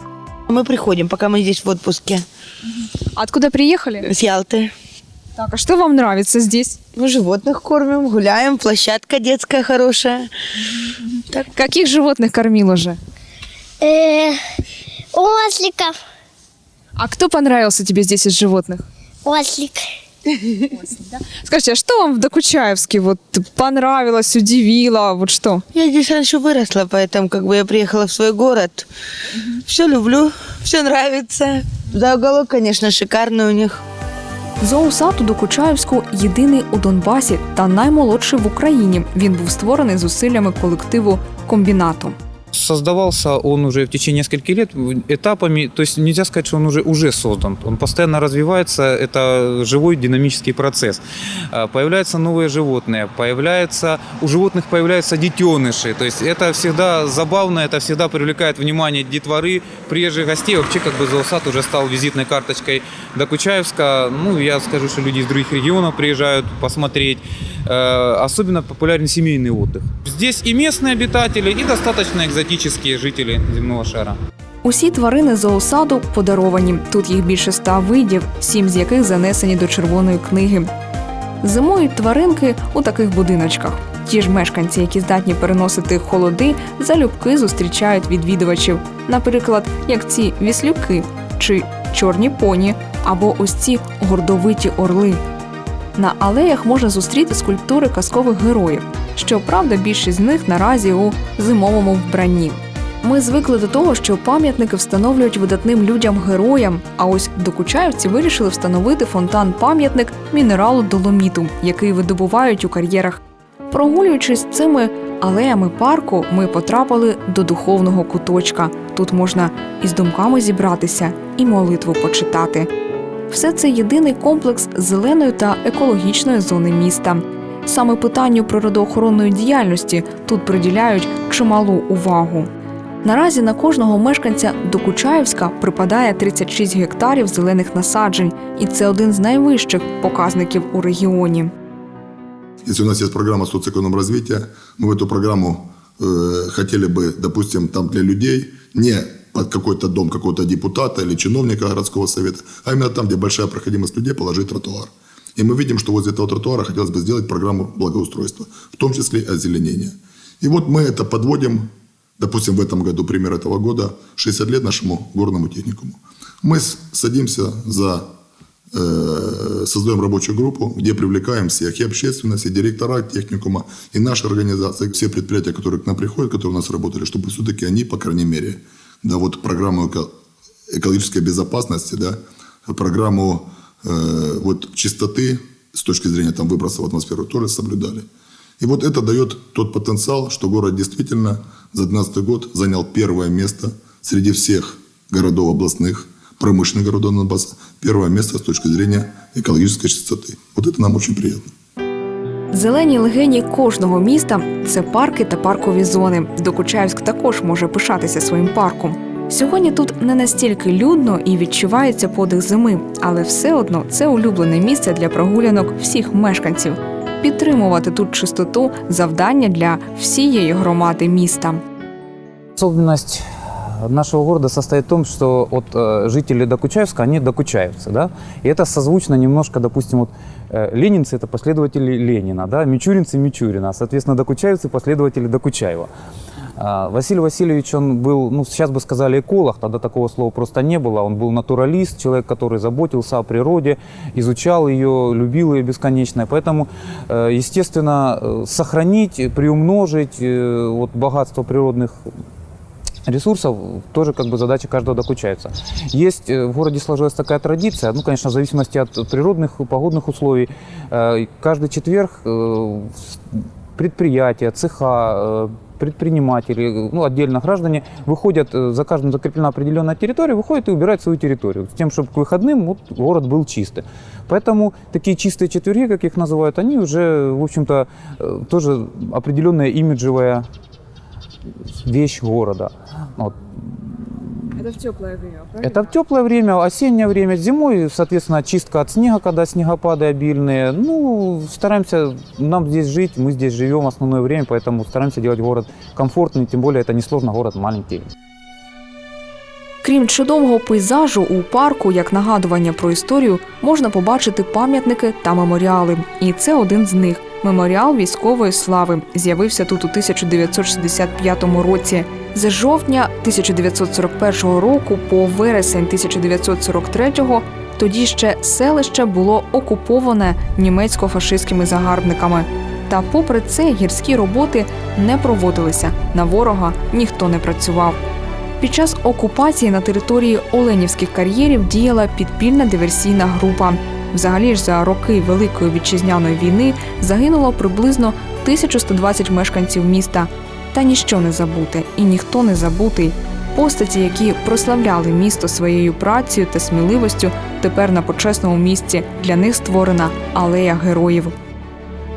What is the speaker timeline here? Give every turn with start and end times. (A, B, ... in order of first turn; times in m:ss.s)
0:00.5-0:02.2 A
0:03.1-0:04.1 B
0:04.0-0:04.7 A
0:05.4-0:06.8 B
0:07.0-0:10.3 A
0:11.5-0:13.0 B
0:13.8-0:14.4 C
0:15.1-0:16.0 C
0:17.0-0:18.8 B
0:19.2-0:19.8 C
0:20.8-0:25.6 B
0:25.7-0:28.9 A
0:29.6-0:33.8 A
0:34.6-0:42.2 B
0:42.5-0:51.0 D
0:51.5-1:14.2 D
1:14.6-1:20.7 B
1:21.4-1:35.2 B
1:36.0-2:02.7 B
2:03.3-2:12.5 B
2:13.0-2:21.5 B
2:22.6-2:48.1 E
2:48.7-3:00.1 E
3:00.7-3:08.1 E
3:08.6-3:21.4 E
3:22.5-3:41.6 B
3:42.6-3:43.2 D
3:43.8-3:55.9 D
3:56.6-4:12.0 D
4:13.0-4:23.2 D
4:23.8-4:40.4 D
4:41.8-4:44.3 D
4:44.9-4:45.6 B
4:45.6-4:58.0 D
4:59.8-5:28.0 B
5:28.6-5:51.3 B